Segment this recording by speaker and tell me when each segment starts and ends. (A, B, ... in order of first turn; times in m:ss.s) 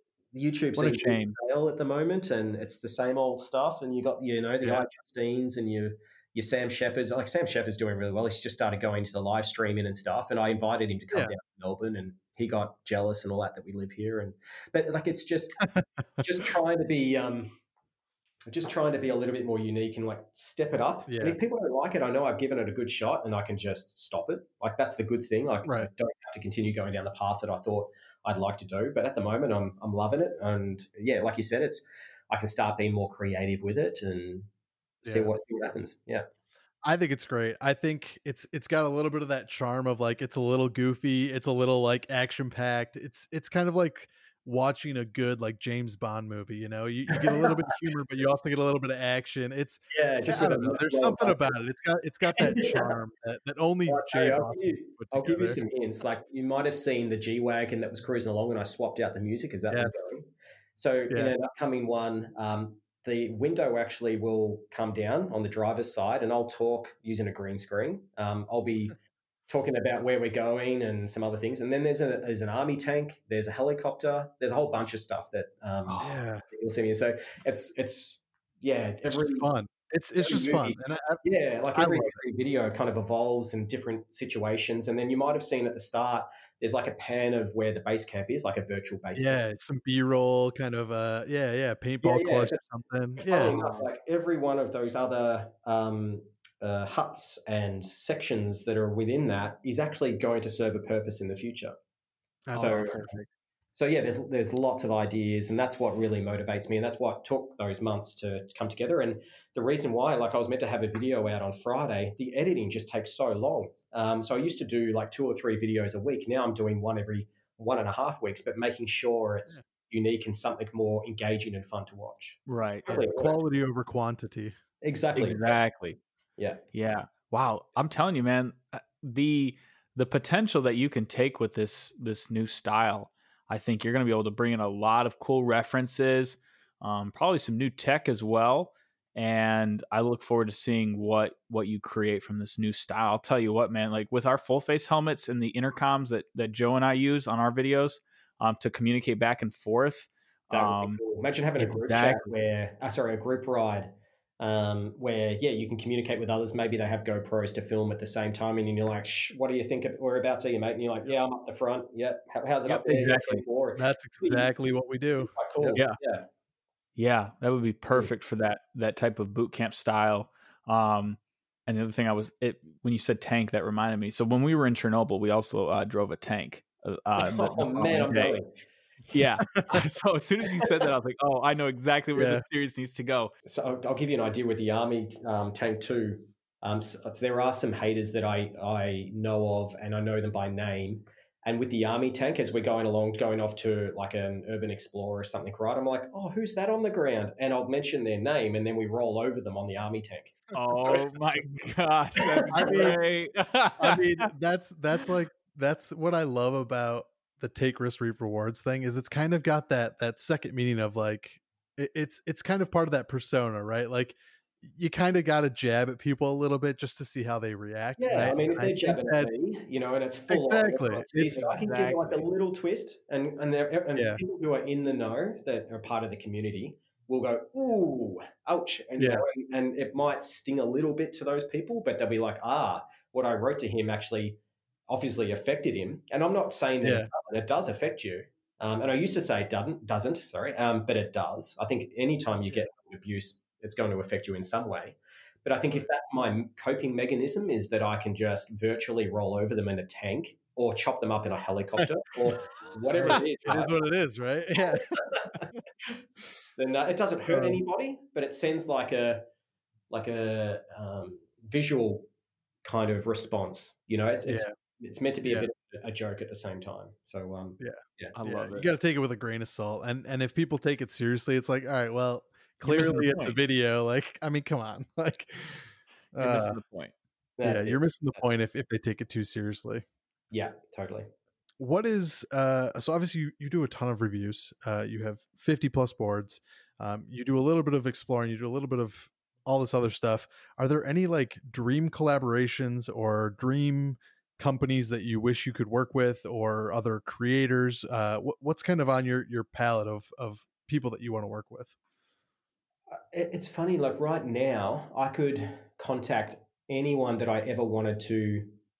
0:00.3-0:15.6 A
0:00.8-0:01.4 B
0:15.6-0:15.8 C
0:16.2-0:17.5 A
0:18.5-0:34.5 A
0:21.1-0:21.4 C
0:35.0-0:35.3 C
0:35.0-0:36.2 A
0:36.8-0:55.6 C
0:47.1-0:47.7 A
0:49.9-0:51.5 A
0:52.3-0:52.9 A
0:53.9-1:08.9 A
0:59.7-0:59.9 C
1:09.5-1:19.5 A
1:15.9-1:16.2 B
1:16.0-1:16.4 C
1:19.0-1:22.2 C
1:20.2-1:29.4 A
1:29.1-1:33.6 C
1:32.0-1:32.6 A
1:33.2-1:41.7 A
1:33.4-1:33.8 B
1:42.5-1:43.2 C
1:42.5-1:43.0 A
1:42.5-1:43.2 B
1:43.7-2:03.4 A
2:02.5-2:02.9 B
2:02.9-2:04.6 C
2:04.8-2:05.6 A
2:05.2-2:06.0 B
2:06.7-2:31.0 B
2:30.5-2:44.5 A
2:31.6-2:32.3 B
2:42.7-2:43.4 B
2:43.8-2:45.8 C
2:45.2-2:46.3 A
2:47.0-2:58.4 B
2:57.2-2:58.5 A
2:59.1-3:03.3 B
3:00.6-3:00.9 A
3:02.1-3:02.4 C
3:03.4-3:21.4 A
3:20.5-3:24.3 B
3:22.2-3:23.0 A
3:22.5-3:23.0 C
3:23.8-3:39.4 C
3:38.0-4:13.8 A
3:40.3-3:41.6 C
3:41.4-3:42.2 B
3:43.9-3:44.2 C
3:49.0-3:49.2 C
3:56.8-3:57.1 C
4:12.9-4:15.0 C
4:14.7-4:16.0 A
4:16.6-4:19.2 A
4:17.3-4:17.6 C
4:19.9-4:22.1 A
4:22.6-4:28.1 A
4:24.3-4:24.5 C
4:27.6-4:36.6 C
4:28.1-4:28.7 B
4:32.6-4:33.3 B
4:36.2-4:36.9 B
4:37.4-4:38.2 A
4:37.4-4:39.8 C
4:40.3-4:41.1 A
4:41.6-5:01.7 C
5:02.9-5:08.6 A